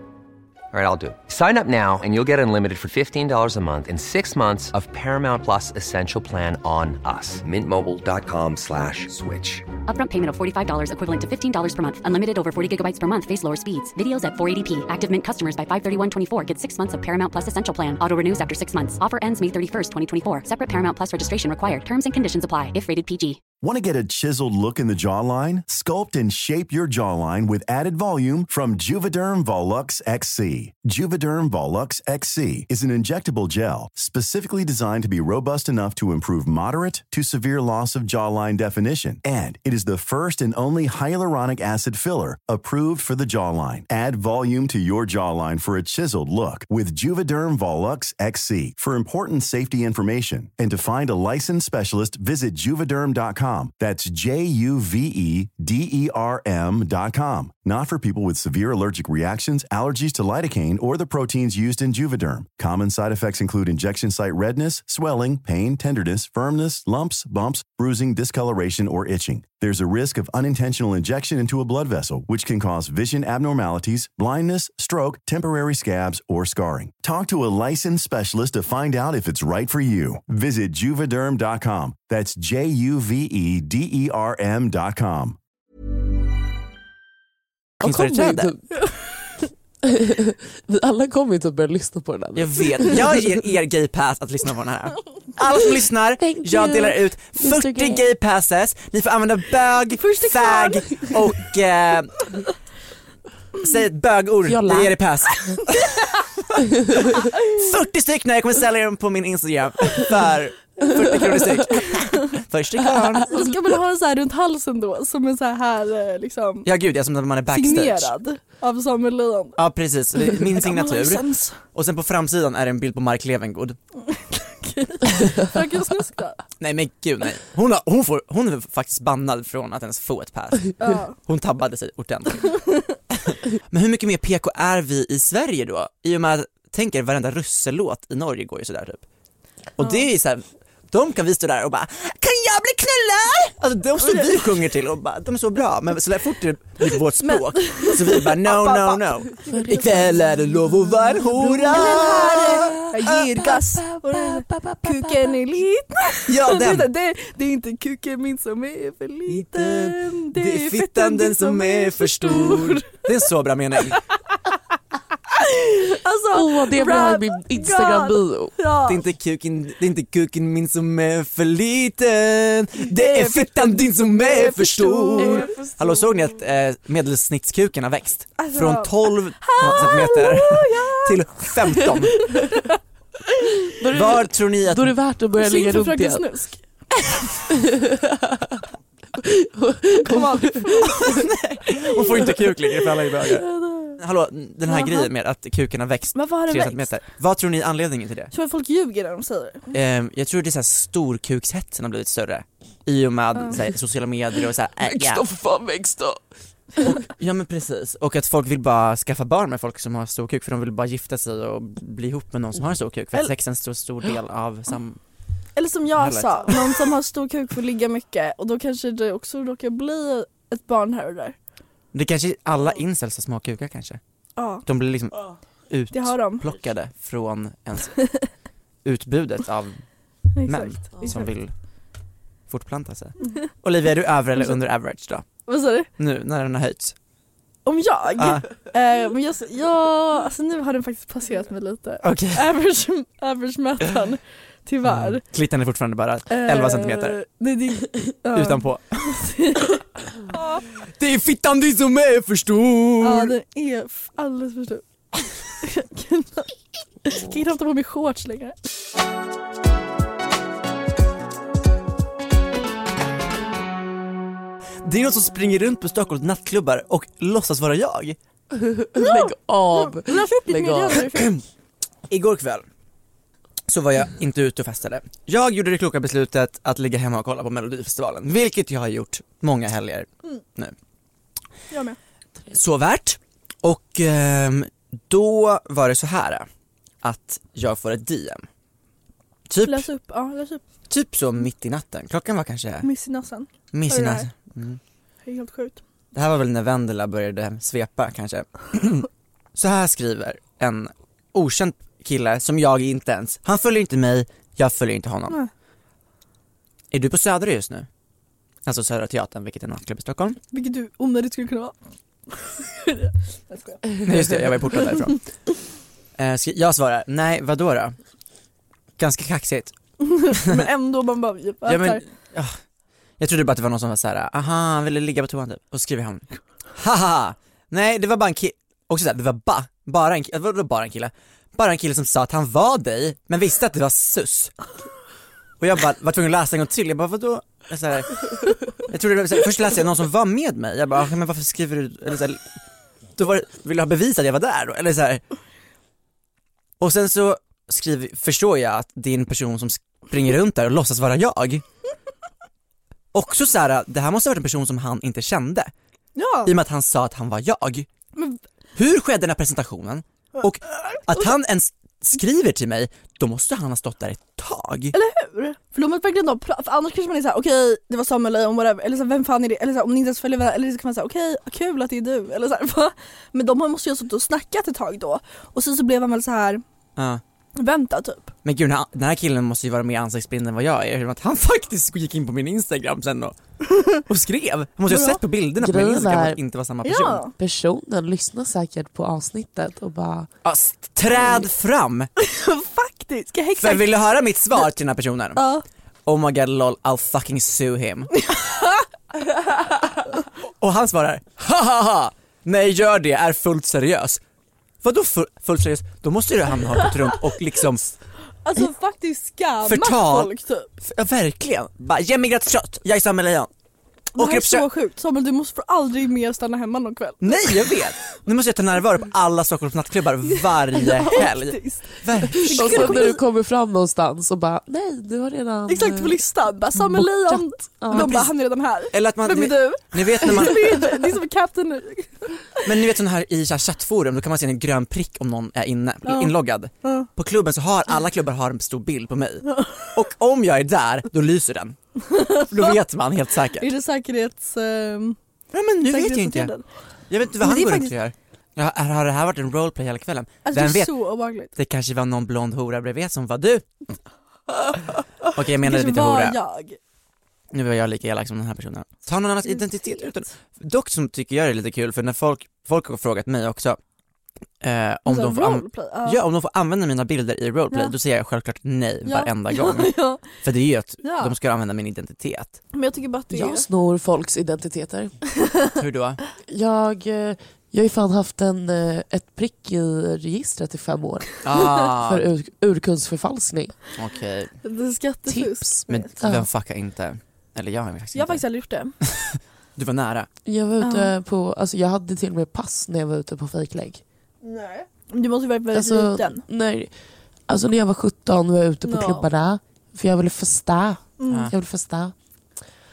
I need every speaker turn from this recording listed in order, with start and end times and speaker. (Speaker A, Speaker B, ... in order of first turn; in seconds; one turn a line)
Speaker A: 0.7-9.7
Speaker B: 9.8-23.4
Speaker C: 23.6-85.4
Speaker D: 87.8-88.6
Speaker E: 87.8-88.5
Speaker F: 88.8-89.1
Speaker D: 89.8-93.2
Speaker E: 92.3-102.2
Speaker D: 96.2-98.0
Speaker F: 100.0-100.9
Speaker E: 103.6-106.0
Speaker D: 104.5-105.1
Speaker E: 107.5-113.5
Speaker F: 113.3-116.7
Speaker E: 116.6-118.1
Speaker F: 117.5-119.6
Speaker E: 119.6-123.8
Speaker F: 120.2-121.6
Speaker F: 124.1-126.4
Speaker E: 126.6-132.5
Speaker F: 130.8-131.1
Speaker E: 133.2-139.0
Speaker E: 139.8-153.5
Speaker F: 144.0-144.4
Speaker F: 147.2-150.2
Speaker D: 149.5-150.3
Speaker F: 151.4-163.1
Speaker D: 151.7-152.8
Speaker D: 153.9-155.3
Speaker E: 156.3-156.9
Speaker E: 159.3-164.0
Speaker F: 165.4-169.0
Speaker D: 166.3-168.5
Speaker E: 168.8-182.2
Speaker F: 172.8-175.6
Speaker D: 175.2-176.3
Speaker F: 178.4-181.5
Speaker D: 183.8-186.2
Speaker E: 183.9-185.0
Speaker F: 185.4-186.8
Speaker D: 187.6-188.4
Speaker D: 189.2-190.8
Speaker F: 190.0-191.2
Speaker E: 190.8-193.5
Speaker F: 193.4-194.0
Speaker E: 194.0-198.3
Speaker F: 194.7-195.1
Speaker F: 196.1-196.9
Speaker F: 198.3-199.7
Speaker E: 199.7-205.2
Speaker D: 204.8-206.2
Speaker E: 206.8-215.0
Speaker F: 215.6-221.3
Speaker E: 215.9-216.8
Speaker E: 221.9-224.0
Speaker F: 224.3-224.6
Speaker E: 224.6-227.9
Speaker F: 225.9-226.5
Speaker E: 228.8-229.8
Speaker F: 230.3-231.3
Speaker E: 230.4-231.5
Speaker E: 232.5-235.3
Speaker F: 235.4-235.9
Speaker E: 236.0-236.9
Speaker F: 237.6-245.2
Speaker E: 238.2-238.4
Speaker E: 242.0-242.5
Speaker E: 244.8-247.2
Speaker F: 246.3-249.8
Speaker E: 248.3-248.8
Speaker E: 251.0-253.3
Speaker F: 253.0-254.8
Speaker F: 255.6-256.5
Speaker F: 257.0-258.6
Speaker E: 264.8-268.2
Speaker D: 268.5-271.1
Speaker F: 268.9-271.4
Speaker E: 271.1-271.4
Speaker E: 272.1-272.7
Speaker E: 273.7-280.7
Speaker F: 281.7-282.0
Speaker E: 282.5-286.5
Speaker E: 287.0-288.4
Speaker E: 289.5-289.9
Speaker F: 289.6-290.6
Speaker E: 290.9-292.9
Speaker F: 292.8-294.3
Speaker E: 293.7-294.8
Speaker F: 295.2-295.8
Speaker E: 296.1-305.4
Speaker E: 306.9-307.9
Speaker E: 308.6-310.4
Speaker F: 310.5-311.8
Speaker F: 312.3-313.8
Speaker E: 314.0-315.2
Speaker E: 316.2-317.9
Speaker E: 319.0-319.8
Speaker F: 320.0-322.0
Speaker E: 320.3-320.7
Speaker E: 321.6-322.6
Speaker E: 323.2-334.6
Speaker E: 335.6-342.4
Speaker E: 343.1-345.2
Speaker E: 346.8-351.6
Speaker E: 353.1-355.7
Speaker F: 356.1-356.5
Speaker E: 356.4-357.9
Speaker E: 358.8-364.9
Speaker F: 364.9-376.6
Speaker E: 377.0-377.2
Speaker F: 377.6-378.3
Speaker E: 378.4-383.4
Speaker E: 384.1-387.2
Speaker F: 384.9-385.2
Speaker D: 385.6-386.4
Speaker F: 386.8-387.3
Speaker D: 387.4-390.3
Speaker E: 390.4-392.1
Speaker F: 392.2-394.0
Speaker E: 393.6-395.5
Speaker F: 395.4-395.6
Speaker E: 396.1-398.2
Speaker F: 398.3-398.7
Speaker E: 400.6-404.2
Speaker E: 404.8-408.0
Speaker F: 408.4-410.7
Speaker E: 409.6-413.5
Speaker F: 414.1-417.8
Speaker E: 414.1-414.7
Speaker E: 417.2-423.1
Speaker F: 420.7-423.2
Speaker D: 422.5-428.3
Speaker F: 425.7-432.7
Speaker E: 427.9-428.3
Speaker E: 428.9-430.9
Speaker E: 432.6-441.8
Speaker F: 436.1-437.1
Speaker F: 442.1-442.8
Speaker E: 442.5-443.7
Speaker F: 443.6-445.2
Speaker E: 445.5-446.5
Speaker F: 445.9-446.6
Speaker E: 447.1-450.9
Speaker F: 447.4-447.9
Speaker F: 450.4-451.5
Speaker E: 451.5-453.7
Speaker E: 455.3-456.4
Speaker F: 455.6-456.8
Speaker E: 457.5-463.8
Speaker F: 459.4-460.2
Speaker E: 464.6-472.6
Speaker F: 465.1-466.2
Speaker F: 469.0-470.2
Speaker F: 471.0-471.4
Speaker F: 472.7-473.7
Speaker D: 473.3-475.1
Speaker E: 475.7-476.2
Speaker D: 476.5-481.3
Speaker E: 481.4-482.3
Speaker D: 481.9-483.8
Speaker E: 483.9-484.5
Speaker F: 484.6-486.2
Speaker D: 485.3-486.5
Speaker E: 485.9-488.4
Speaker F: 488.1-488.9
Speaker E: 489.0-490.3
Speaker D: 490.4-494.0
Speaker F: 490.8-491.1
Speaker F: 494.4-496.4
Speaker D: 495.7-496.9
Speaker D: 497.5-502.1
Speaker F: 498.8-499.3
Speaker F: 501.2-501.5
Speaker E: 501.3-501.5